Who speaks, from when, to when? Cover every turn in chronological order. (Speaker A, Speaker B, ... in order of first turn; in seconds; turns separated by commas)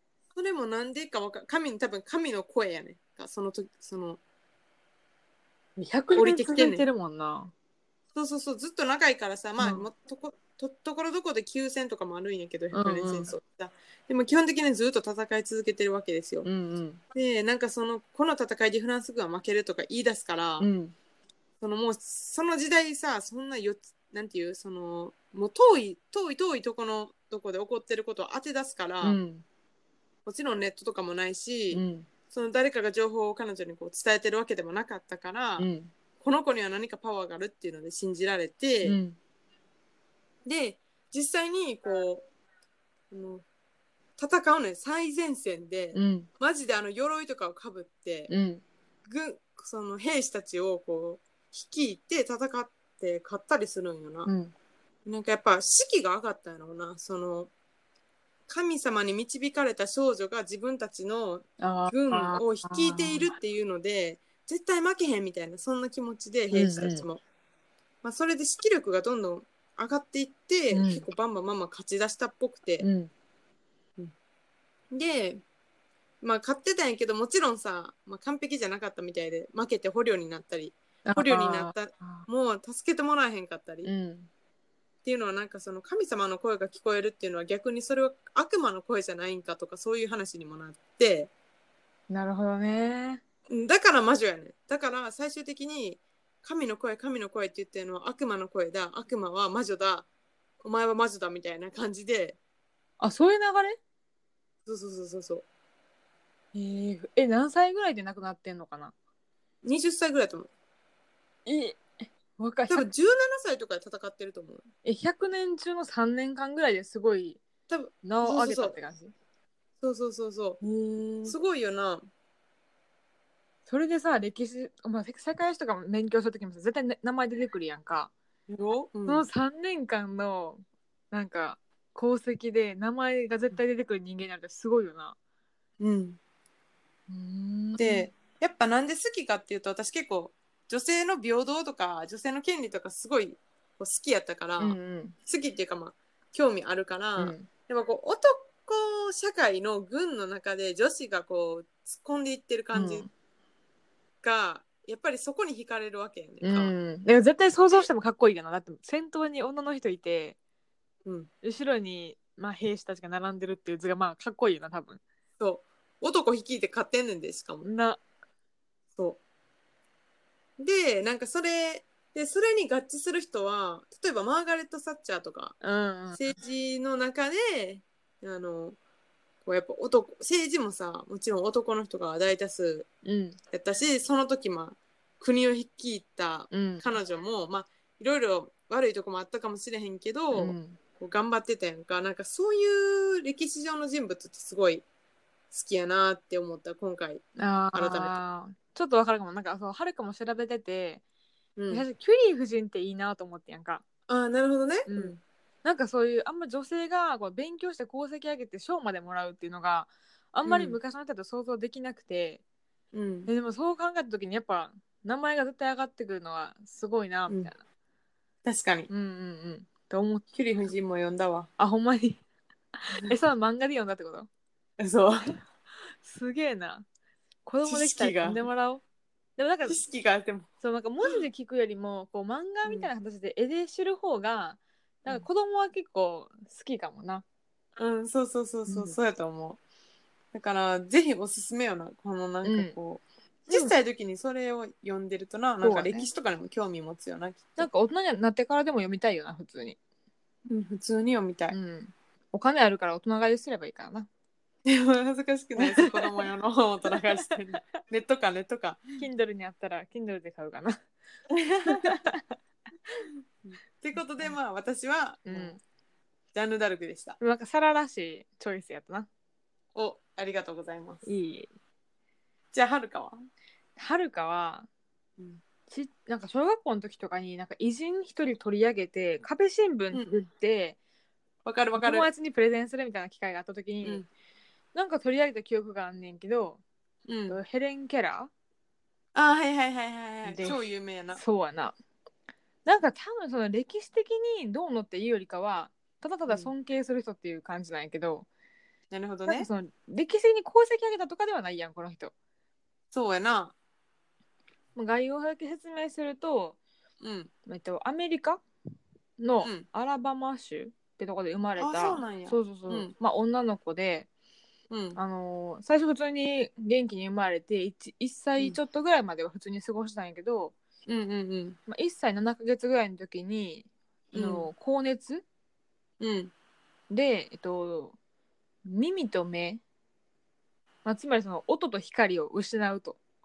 Speaker A: 0.3-4.2, Speaker B: 5.8-7.5, Speaker A: 6.1-6.8, Speaker A: 8.1-16.5, Speaker B: 9.6-9.9, Speaker B: 12.7-13.3, Speaker B: 16.4-17.0, Speaker A: 17.1-20.7, Speaker B: 20.6-20.9, Speaker A: 21.6-29.2, Speaker B: 29.0-29.4, Speaker A: 30.2-35.7, Speaker B: 31.7-32.1, Speaker B: 35.6-35.9, Speaker A: 36.2-39.0, Speaker B: 38.8-39.2, Speaker A: 40.4-42.3, Speaker A: 43.1-43.4, Speaker A: 44.2-48.3, Speaker B: 45.9-46.3, Speaker B: 48.3-48.6, Speaker A: 49.1-54.3, Speaker B: 54.2-54.5, Speaker A: 55.0-57.5, Speaker A: 58.5-67.2, Speaker B: 61.6-63.3, Speaker B: 66.5-67.0, Speaker A: 68.0-72.9, Speaker B: 70.7-71.0, Speaker B: 72.8-73.1, Speaker A: 74.9-75.4, Speaker A: 76.2-83.9, Speaker B: 81.0-82.3, Speaker B: 83.8-84.3, Speaker A: 85.0-91.3, Speaker B: 92.1-93.2, Speaker A: 93.5-100.1, Speaker A: 100.6-102.4, Speaker B: 103.0-103.8, Speaker A: 104.7-105.4, Speaker B: 106.5-108.9, Speaker A: 109.6-110.5, Speaker B: 111.5-112.9, Speaker A: 112.7-114.7, Speaker B: 114.8-117.4, Speaker A: 117.7-118.8, Speaker B: 118.0-119.1, Speaker A: 119.8-120.6, Speaker B: 120.6-121.3, Speaker A: 121.2-122.1, Speaker B: 123.7-128.1, Speaker A: 128.5-129.2, Speaker B: 129.1-135.2, Speaker A: 135.8-136.2, Speaker B: 137.1-138.1, Speaker A: 137.8-153.1, Speaker B: 144.6-145.1, Speaker B: 147.2-147.5, Speaker B: 152.7-153.1, Speaker A: 154.2-156.7, Speaker B: 156.4-160.4, Speaker B: 161.4-165.0, Speaker A: 165.4-167.7, Speaker B: 167.6-168.0, Speaker A: 170.6-175.6, Speaker B: 175.6-176.3, Speaker A: 176.1-178.8, Speaker A: 179.4-182.9, Speaker B: 183.0-183.4, Speaker A: 183.5-194.8, Speaker B: 186.5-186.9, Speaker B: 190.3-190.8, Speaker A: 195.5-198.2, Speaker B: 197.4-201.0, Speaker A: 201.6-201.8, Speaker B: 201.7-203.8, Speaker A: 204.1-205.2, Speaker B: 204.9-212.4, Speaker A: 210.4-210.8, Speaker A: 212.9-213.3, Speaker B: 213.3-217.6, Speaker A: 218.4-218.9, Speaker B: 218.9-220.2, Speaker A: 220.3-221.5, Speaker B: 221.6-222.2, Speaker B: 222.8-224.3, Speaker A: 224.8-225.2, Speaker B: 226.0-226.8, Speaker B: 227.4-228.8, Speaker A: 227.6-228.4, Speaker B: 229.4-229.8, Speaker A: 229.7-230.5, Speaker B: 230.6-237.2, Speaker A: 232.6-232.9, Speaker A: 237.8-239.6, Speaker B: 238.7-239.0, Speaker A: 240.3-247.7, Speaker B: 242.4-242.7, Speaker B: 243.5-243.7, Speaker B: 245.6-246.1, Speaker B: 247.6-249.8, Speaker A: 250.5-251.6, Speaker B: 251.5-254.1, Speaker A: 254.6-259.0, Speaker B: 255.6-256.1, Speaker B: 256.9-257.3, Speaker B: 259.0-260.8, Speaker A: 261.3-262.0, Speaker B: 261.6-262.2, Speaker A: 263.4-265.6, Speaker B: 265.2-265.6, Speaker A: 266.3-267.2, Speaker B: 267.2-269.1, Speaker A: 269.7-271.0, Speaker B: 271.1-271.5, Speaker A: 272.5-273.2, Speaker B: 273.8-274.7, Speaker B: 275.7-280.8, Speaker A: 281.4-282.1, Speaker B: 281.8-284.1, Speaker B: 284.7-286.6, Speaker A: 287.1-287.4, Speaker B: 287.3-288.3, Speaker A: 289.1-291.2, Speaker B: 290.2-290.6, Speaker B: 291.1-291.8, Speaker B: 292.6-298.2, Speaker A: 298.9-299.5, Speaker B: 299.2-302.1, Speaker A: 302.9-303.5, Speaker B: 304.8-306.6, Speaker A: 307.0-307.3, Speaker B: 307.4-308.4, Speaker B: 309.2-314.1, Speaker A: 311.6-312.9, Speaker A: 314.7-315.0, Speaker B: 314.9-320.5, Speaker A: 320.9-321.6, Speaker B: 321.7-325.2, Speaker A: 324.1-324.5, Speaker A: 326.0-326.3, Speaker B: 326.9-328.0, Speaker B: 328.6-329.6, Speaker B: 330.8-333.0